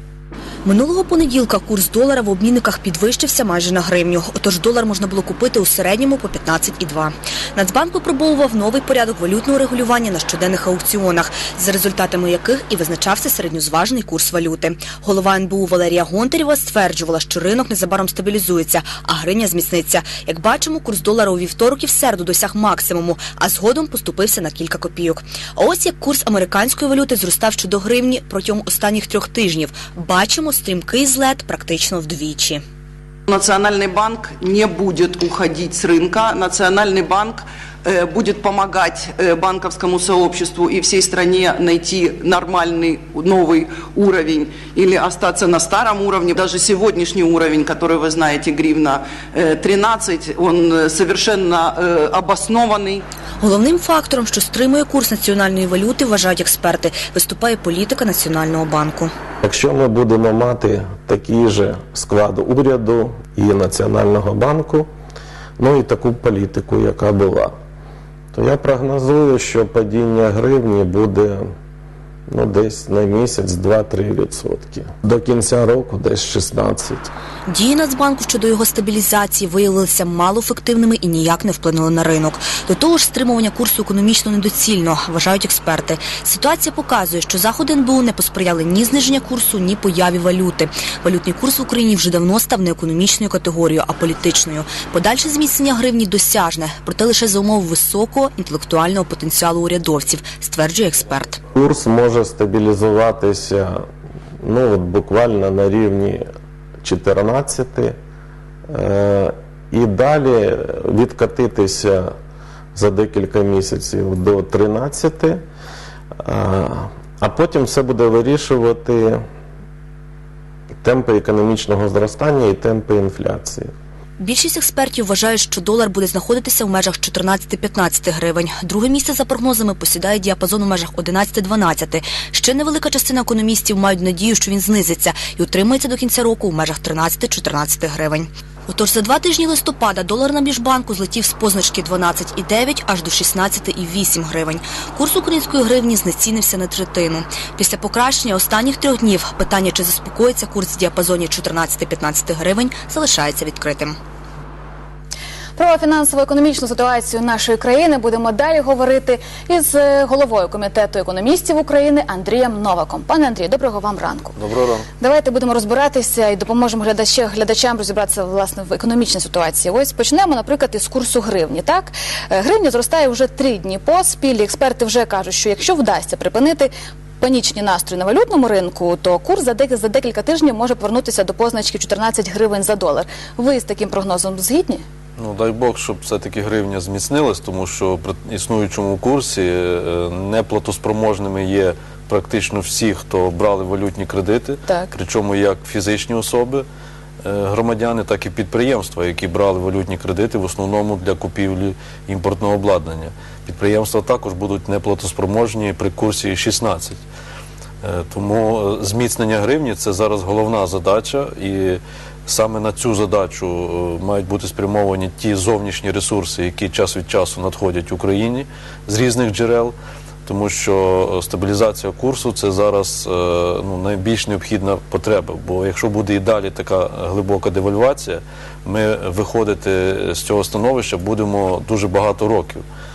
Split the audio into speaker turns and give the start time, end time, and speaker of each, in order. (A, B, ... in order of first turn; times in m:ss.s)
0:00.6-0:32.6 A
0:33.3-0:53.0 B
0:53.4-0:59.1 A
0:59.4-1:04.9 C
1:05.6-1:07.6 C
1:08.3-1:11.5 C
1:12.3-1:17.1 C
1:17.5-1:41.4 A
1:41.5-1:43.8 C
1:44.4-1:46.2 C
1:46.8-1:47.9 C
1:48.7-1:52.1 C
1:52.8-1:55.4 C
1:56.2-1:59.2 C
2:00.8-2:03.7 C
2:04.2-2:34.0 A
2:35.6-2:44.4 D
2:44.4-2:44.9 E
2:45.0-3:04.8 D
3:05.2-3:16.6 E
3:17.2-3:27.0 E
3:27.8-3:39.7 E
3:40.2-3:52.6 E